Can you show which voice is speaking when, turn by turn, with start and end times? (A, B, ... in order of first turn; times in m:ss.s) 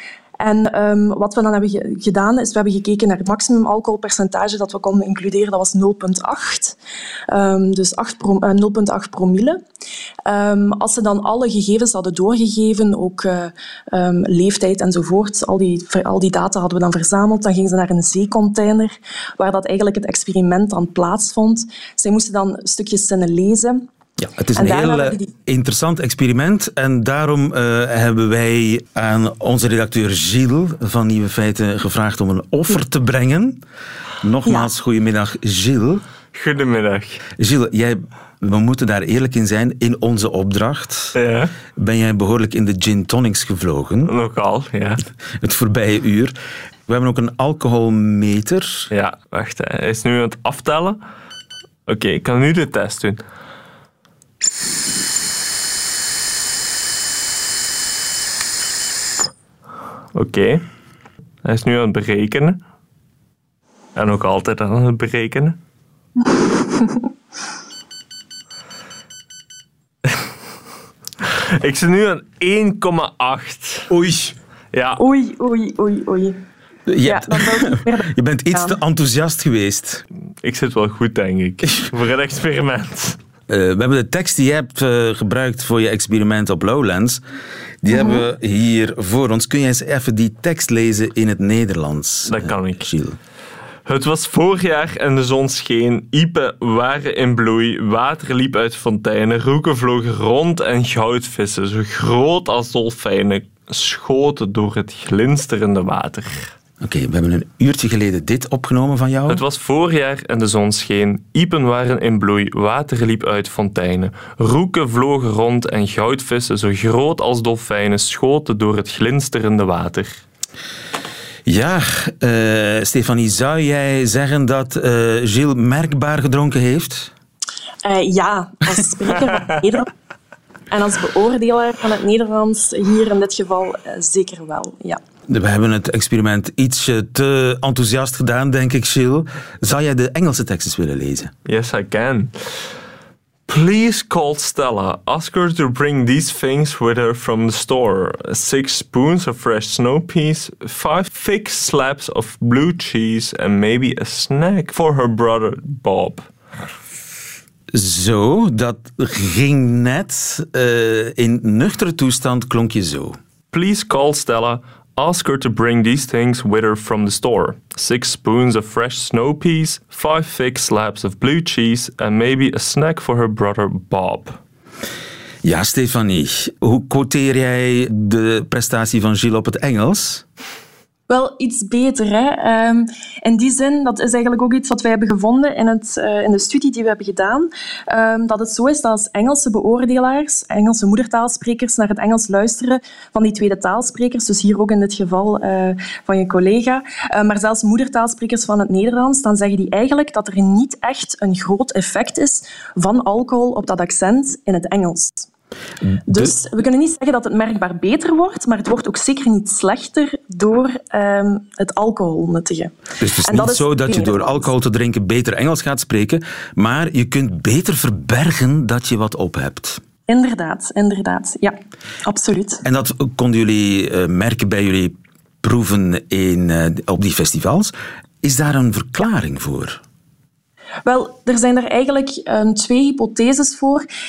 0:00.4-0:06.8 A
0:07.3-0:09.6 A
0:10.2-0:23.9 A
0:24.2-0:33.6 B
0:24.5-0:25.3 A
0:34.2-0:36.0 B
0:36.3-0:37.2 C
0:37.4-0:41.1 B
0:41.1-0:41.5 C
0:41.8-0:44.1 B
0:44.0-0:45.0 C
0:45.4-0:46.3 B
0:46.9-0:48.9 B
0:48.9-0:51.0 C
0:51.8-0:53.2 C
1:00.1-1:00.6 C
1:01.4-1:02.6 C
1:04.0-1:05.6 C
1:11.2-1:13.9 C
1:13.9-1:14.3 B
1:14.7-1:15.0 C
1:15.0-1:16.4 A
1:16.9-1:20.0 B
1:17.0-1:18.8 A
1:20.4-1:23.2 C
1:23.5-1:27.2 B
1:27.8-1:33.2 B
1:27.9-1:28.2 A
1:32.3-1:32.8 C
1:33.8-1:46.5 C
1:46.8-1:49.4 B
1:49.3-2:00.2 C
2:01.4-2:07.1 B
2:07.8-2:09.9 A
2:10.7-2:15.0 A
2:15.3-2:21.3 B
2:21.4-2:22.4 C
2:23.5-2:36.3 C
2:37.7-2:43.2 B
2:43.5-2:54.4 C
2:55.4-3:00.2 B
3:01.1-3:25.3 A
3:25.9-3:26.3 B
3:26.0-3:32.7 A
3:33.0-3:39.8 B
3:33.2-3:34.5 A
3:40.1-3:42.6 A
3:42.6-3:49.8 B
3:50.8-3:53.8 A